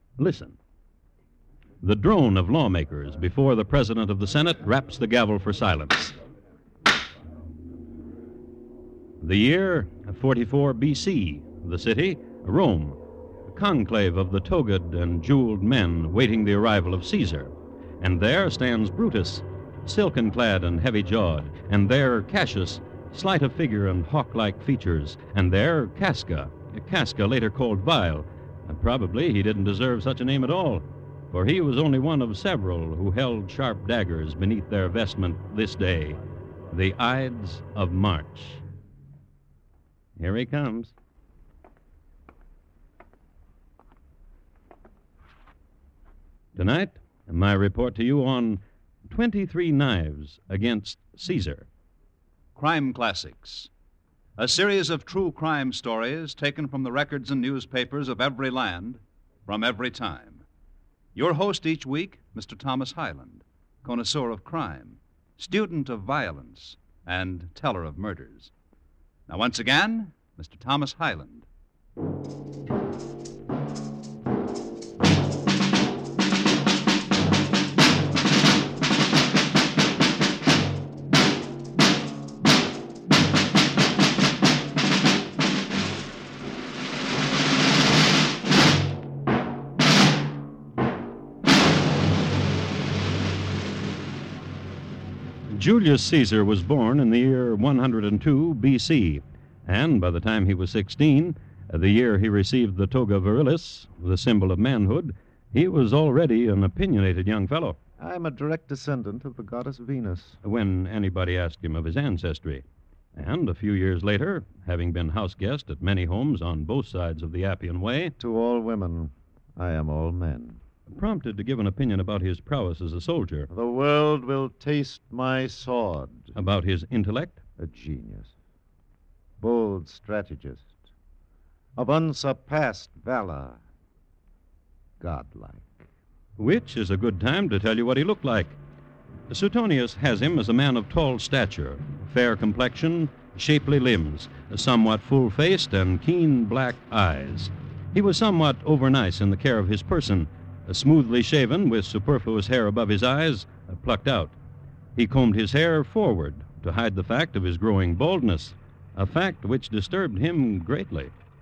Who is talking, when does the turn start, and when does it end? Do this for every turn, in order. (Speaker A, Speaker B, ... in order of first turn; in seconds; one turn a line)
Speaker A: 0.2-0.6
Speaker A: 1.8-6.2
Speaker A: 9.2-13.0
Speaker A: 13.5-36.2
Speaker A: 36.7-38.6
Speaker A: 40.2-40.9
Speaker A: 46.6-51.7
Speaker B: 52.6-53.7
Speaker B: 54.4-60.5
Speaker B: 61.1-68.5
Speaker B: 69.3-71.5
Speaker A: 95.5-107.8
Speaker C: 108.0-110.4
Speaker A: 110.4-112.6
Speaker A: 113.2-118.2
Speaker C: 118.2-120.6
Speaker A: 120.9-123.5
Speaker C: 123.5-126.3
Speaker A: 126.3-127.4
Speaker C: 127.6-128.3
Speaker C: 129.4-130.8
Speaker C: 131.8-133.6
Speaker C: 135.0-135.8
Speaker A: 136.4-138.6
Speaker A: 139.3-154.3
Speaker A: 155.0-161.1